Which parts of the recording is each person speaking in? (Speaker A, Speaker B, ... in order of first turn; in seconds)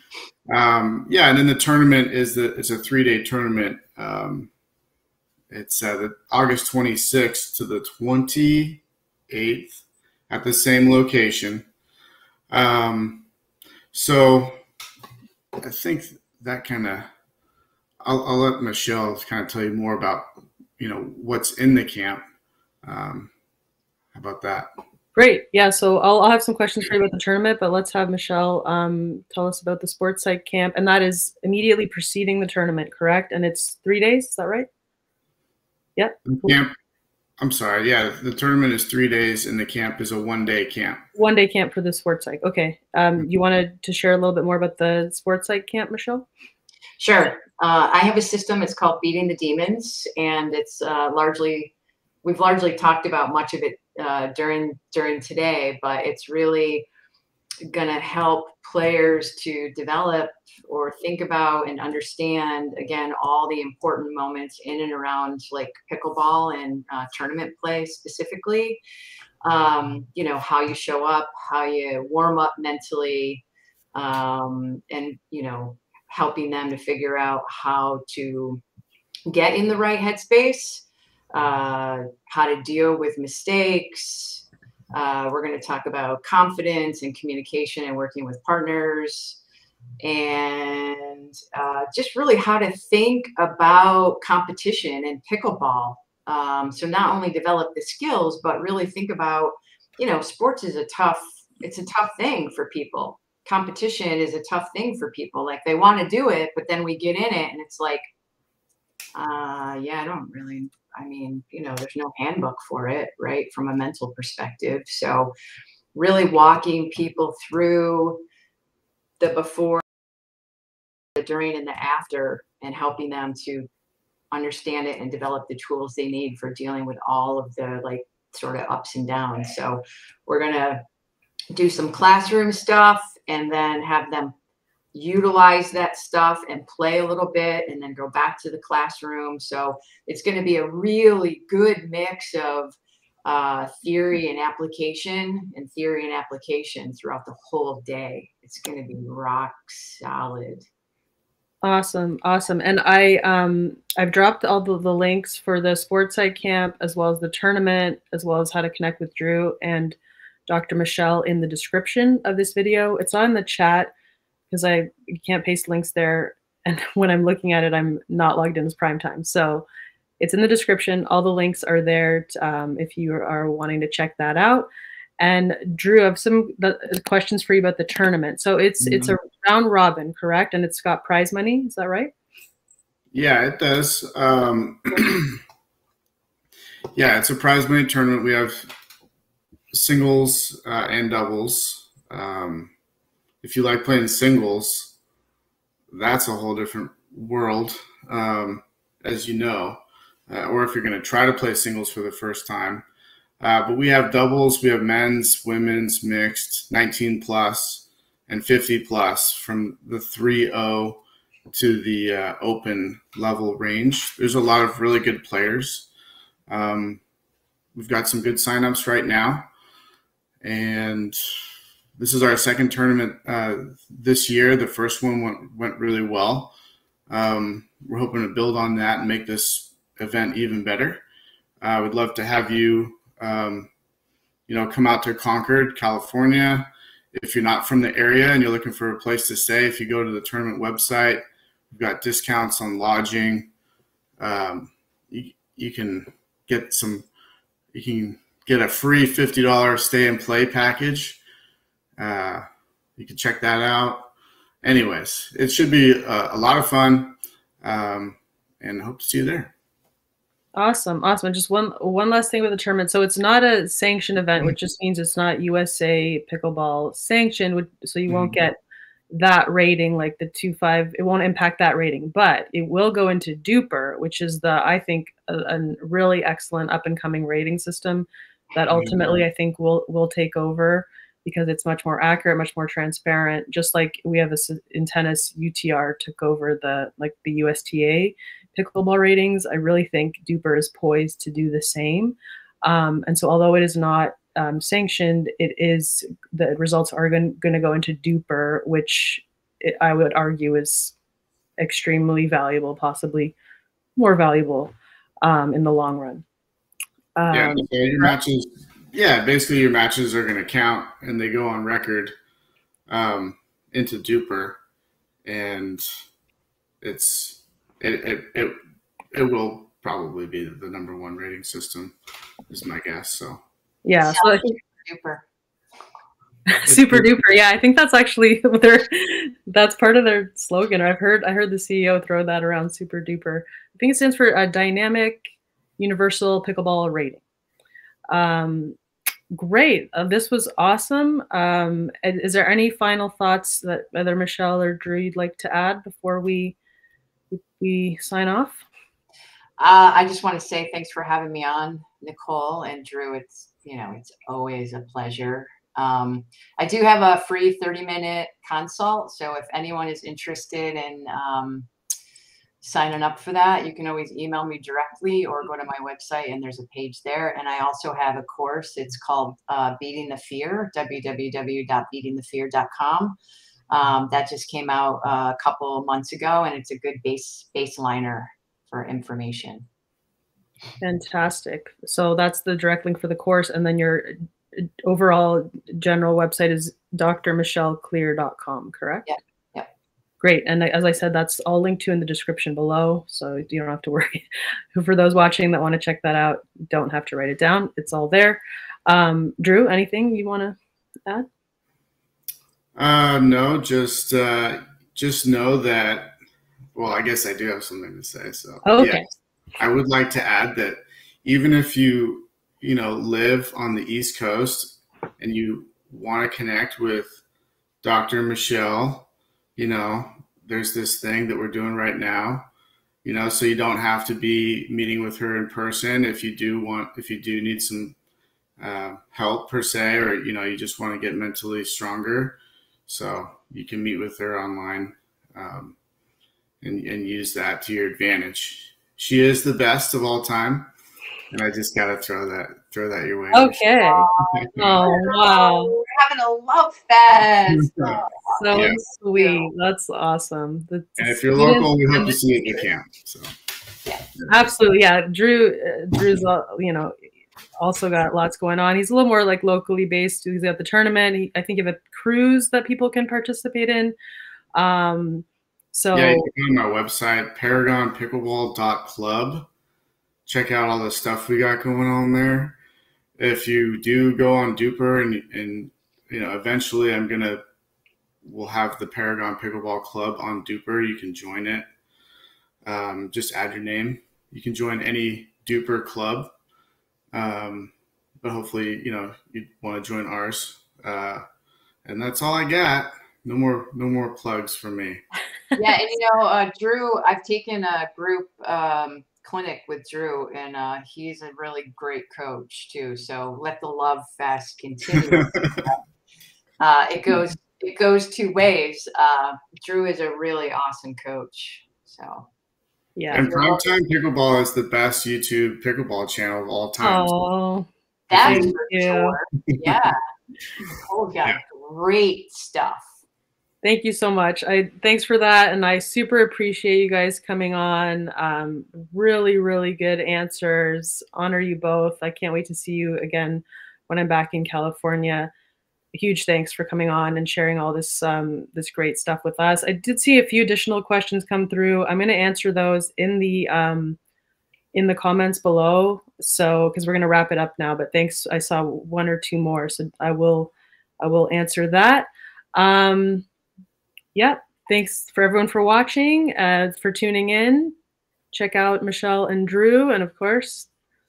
Speaker A: 0.5-4.5, 5.5-11.7, 12.5-13.3, 13.9-14.6, 15.6-17.1, 18.0-20.2, 20.8-22.2, 22.8-23.3, 24.1-24.7, 36.3-36.7, 37.4-41.0, 178.8-179.1, 183.1-185.4, 186.9-188.7, 189.7-192.7, 193.4-194.9, 195.9-202.8, 203.4-215.9, 216.5-217.0, 217.7-219.5, 220.4-221.2, 222.0-226.5, 227.1-231.0, 231.6-233.7, 234.5-243.5, 244.2-247.1, 247.7-251.2, 252.0-252.4, 253.0-254.1, 254.6-259.5, 268.1-268.4, 278.7-279.2, 307.3-312.1, 312.9-314.6, 315.2-315.8, 316.8-318.5, 319.1-321.9, 322.5-323.4, 326.7-327.2, 402.8-406.1, 406.7-409.0, 409.6-417.2, 417.8-422.5, 423.0-428.0, 428.6-435.8, 436.6-440.7, 441.3-443.6, 444.2-444.8, 447.5-448.0, 451.0-453.3, 465.9-469.5, 470.2-472.6, 473.2-477.4, 478.2-481.6, 482.6-486.3, 487.1-491.2, 491.8-495.0, 513.1-517.1, 518.2-518.5, 519.5-519.8
Speaker B: 25.1-34.7, 36.0-36.6, 41.1-46.2, 151.6-163.9, 164.5-169.7, 170.2-174.7, 175.2-182.1, 260.6-268.6, 269.1-300.9, 301.6-303.3, 303.9-306.2, 307.2-308.1, 323.8-324.4, 326.5-335.3, 335.8-337.2, 338.1-338.8, 339.3-346.6, 347.3-348.6, 380.8-389.1, 390.2-401.2, 408.6-409.0, 443.3-445.8, 448.3-452.2, 454.3-457.0, 457.6-463.9, 464.6-466.3, 513.0-513.3, 516.8-517.7, 518.2-519.1, 523.6-535.3, 535.9-544.0, 544.7-553.2, 554.1-557.7, 558.3-560.7
Speaker C: 47.0-51.7, 52.2-56.9, 57.7-68.8, 69.4-73.4, 73.9-78.6, 79.3-89.4, 90.0-108.0, 109.1-115.3, 115.9-118.2, 119.2-119.8, 121.2-123.7, 124.3-130.8, 131.5-134.3, 134.9-150.7, 324.0-325.2, 349.6-361.7, 362.6-373.2, 373.7-379.6, 389.1-389.7, 443.8-449.5, 495.6-505.8, 506.6-512.3, 513.1-513.6, 518.1-520.0, 520.7-522.9